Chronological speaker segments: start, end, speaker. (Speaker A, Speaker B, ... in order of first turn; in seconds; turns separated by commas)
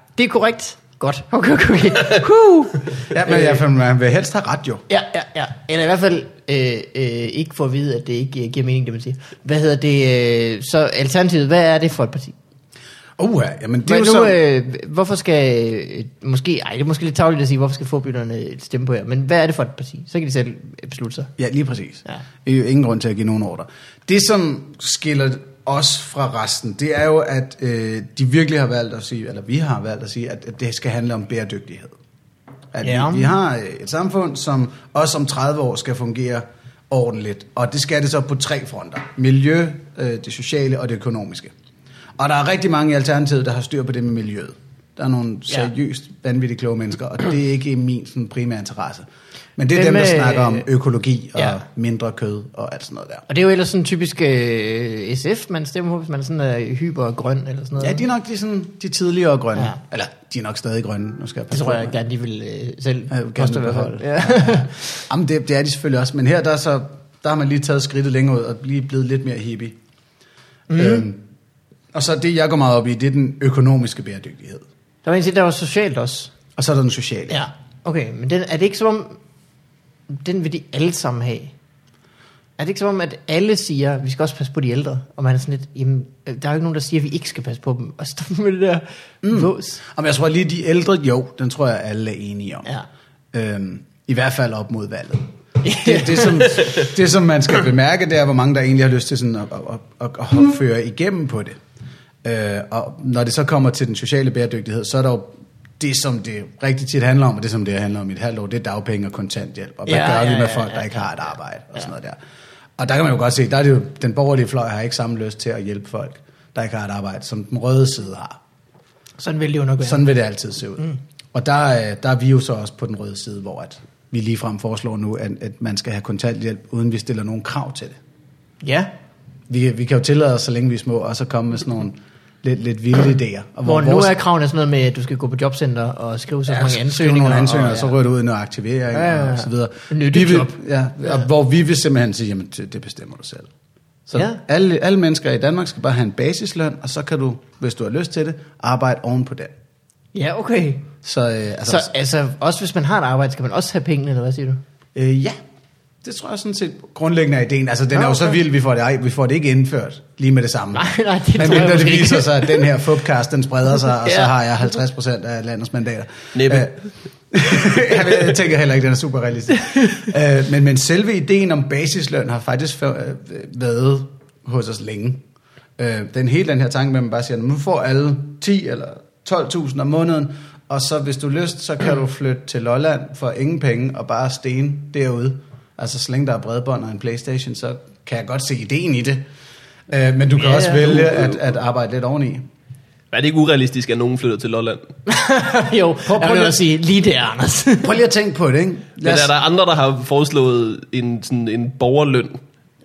Speaker A: 0.2-3.6, Speaker B: 3.1-4.8, Speaker A: 4.9-12.3, Speaker B: 13.2-14.4, Speaker A: 13.8-21.3, Speaker B: 21.4-32.0, Speaker B: 32.7-41.5, Speaker A: 32.8-33.3, Speaker B: 42.2-49.1, Speaker B: 49.6-53.3, Speaker A: 49.7-50.7, Speaker A: 53.3-58.0, Speaker B: 57.8-62.0, Speaker A: 61.5-65.0, Speaker B: 63.1-69.8, Speaker A: 70.7-71.1, Speaker B: 70.8-71.2, Speaker B: 71.9-74.7, Speaker A: 75.0-76.3, Speaker B: 76.6-77.4, Speaker A: 77.3-79.2, Speaker A: 80.1-81.5, Speaker A: 82.6-89.8, Speaker B: 89.2-92.7, Speaker B: 93.3-95.3, Speaker A: 95.6-96.8, Speaker B: 95.8-101.6, Speaker B: 102.2-112.2, Speaker A: 109.9-111.1, Speaker B: 112.8-118.4, Speaker A: 119.2-120.0, Speaker B: 119.8-128.0, Speaker A: 128.6-128.9, Speaker B: 129.5-134.2, Speaker A: 133.7-138.0, Speaker B: 136.5-143.5, Speaker A: 138.9-141.2, Speaker B: 144.1-149.5, Speaker A: 144.1-144.4, Speaker A: 150.1-150.9, Speaker B: 151.0-151.9, Speaker A: 151.7-154.6, Speaker B: 154.9-155.4, Speaker B: 156.0-160.8, Speaker A: 157.9-158.3, Speaker A: 160.7-162.7, Speaker B: 161.4-166.7, Speaker A: 164.0-164.3, Speaker C: 166.3-166.7, Speaker B: 167.3-175.2, Speaker B: 175.8-189.2, Speaker B: 189.9-192.4, Speaker A: 190.4-191.0, Speaker C: 190.9-191.2, Speaker C: 193.1-194.9, Speaker A: 195.1-197.9, Speaker B: 196.1-196.6, Speaker B: 197.8-199.3, Speaker C: 199.0-202.4